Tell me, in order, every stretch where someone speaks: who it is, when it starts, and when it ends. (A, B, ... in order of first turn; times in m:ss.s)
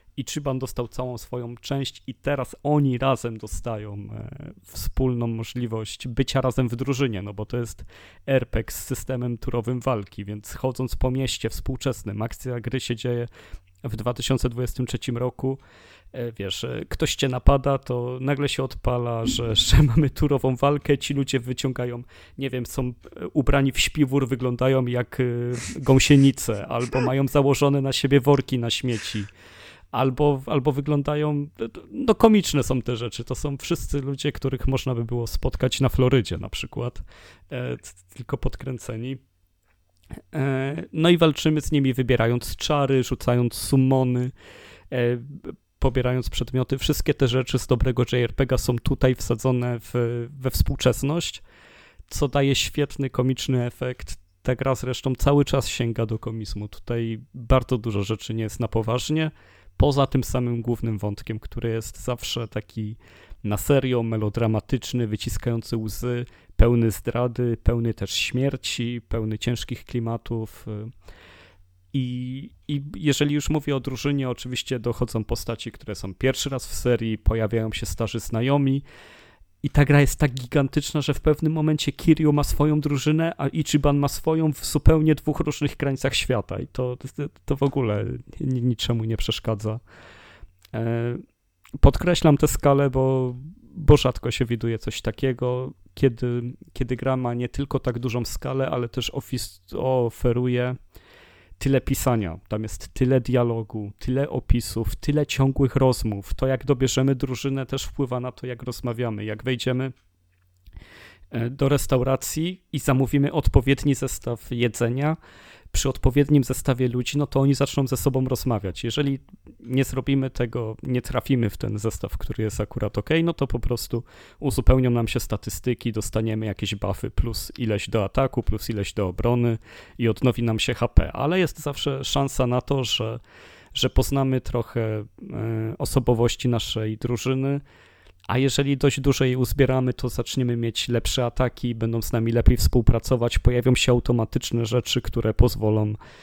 0:00.2-0:13.3 A
0:13.8-0:15.6 A
0:16.1-0:29.3 A
0:29.9-0:39.2 A
0:40.3-0:44.3 A
0:44.9-0:51.4 A
0:52.1-1:10.9 A
1:11.9-1:18.8 A
1:19.6-1:29.8 A
1:30.7-1:31.2 A
1:31.8-1:40.8 A
1:41.6-1:49.9 A
1:51.3-1:55.2 A
1:55.7-2:13.2 A
2:13.7-2:17.6 A
2:18.3-2:26.0 A